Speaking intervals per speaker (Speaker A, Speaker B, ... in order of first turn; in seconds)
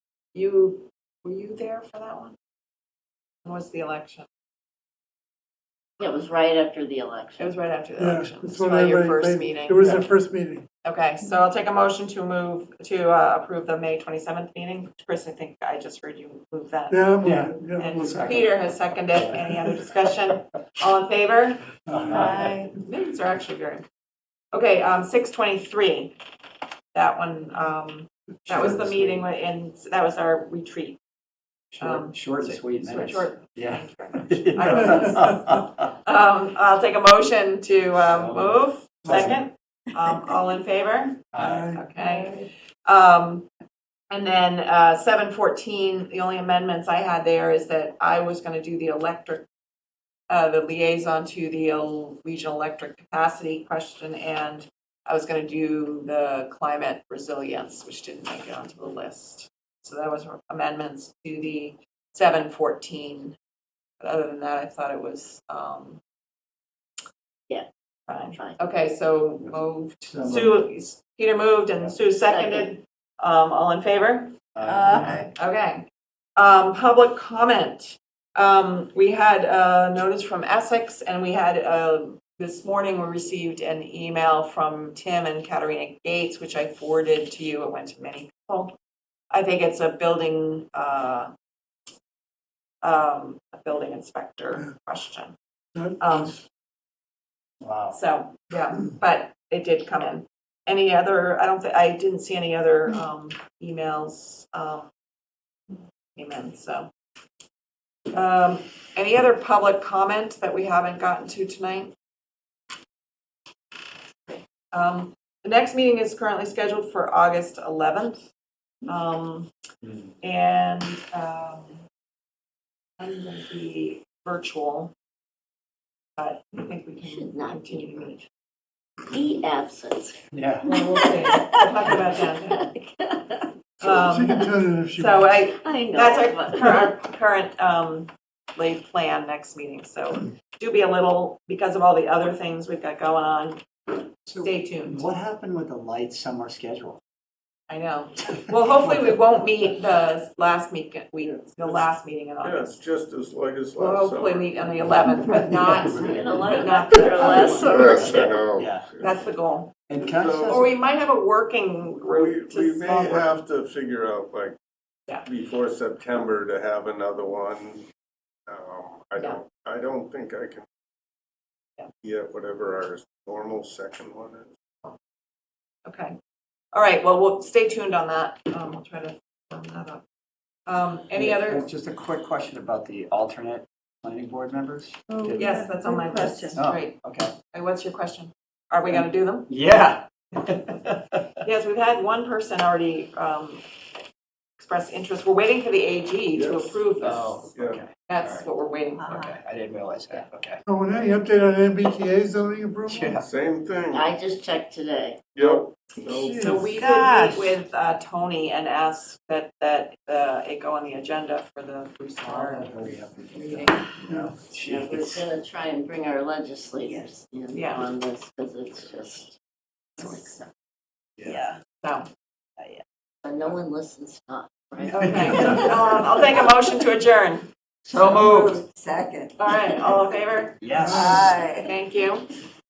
Speaker A: 0.3-2.4, 3.4-4.3, 7.4-10.0, 10.8-17.1, 17.8-23.8, 24.5-26.1, 26.9-31.0, 31.8-43.5, 44.1-49.4, 50.3-63.4, 64.0-66.0, 68.1-74.3, 75.3-88.7, 89.3-91.3, 92.8-95.3, 96.0-96.4, 97.9-104.9, 106.2-106.9, 108.1-111.9, 114.3-118.2, 118.8-119.5, 120.2-121.8, 123.0-124.9, 126.2-128.2, 130.6-132.7, 133.8-143.6, 144.4-145.0, 147.7-152.7, 153.8-158.2, 159.0-159.8, 160.4-163.3, 175.8-176.1, 176.7-180.0, 180.7-181.7, 185.4-187.0, 187.5-189.5, 191.4-193.6, 194.6-197.4, 198.1-199.4, 206.3-212.8, 213.3-213.9, 217.5-217.8, 220.0-220.3, 221.8-222.1, 225.0-227.5, 229.4-231.1, 231.6-232.3
Speaker B: 6.0-7.6, 68.3-68.6, 72.2-72.7, 127.0-128.2, 129.1-130.2, 130.8-133.5, 135.6-136.9, 155.9-158.4, 203.9-205.2, 214.6-219.4, 220.0-220.5, 223.2-226.0
Speaker C: 8.0-10.7, 16.9-18.3, 34.6-35.3, 39.0-39.4, 41.4-41.9, 95.7-96.4, 133.8-135.3, 200.7-203.2, 206.0-206.7, 230.8-231.2
Speaker D: 17.2-20.3, 21.9-22.6, 28.4-29.2, 31.7-35.9, 37.9-39.4, 41.3-41.7, 70.1-70.6, 74.5-75.3, 97.6-98.0, 119.8-120.1, 130.3-130.7, 144.3-147.0, 155.8-156.4, 158.0-158.9, 159.9-160.7, 181.1-185.6, 186.5-187.3, 188.9-191.4, 197.0-198.5, 199.1-200.6, 202.9-203.3, 206.7-207.6, 212.2-215.2, 221.2-221.5, 224.8-226.1, 227.9-228.6, 230.6-231.4
Speaker E: 74.6-75.3, 185.3-186.5, 227.9-229.2, 231.0-231.7
Speaker F: 151.2-151.9, 152.4-154.6, 157.2-159.2, 160.0-160.6, 162.1-164.6, 165.2-167.8, 168.5-170.7, 172.0-174.5, 196.3-196.8, 197.5-197.8, 203.2-204.1, 205.3-206.4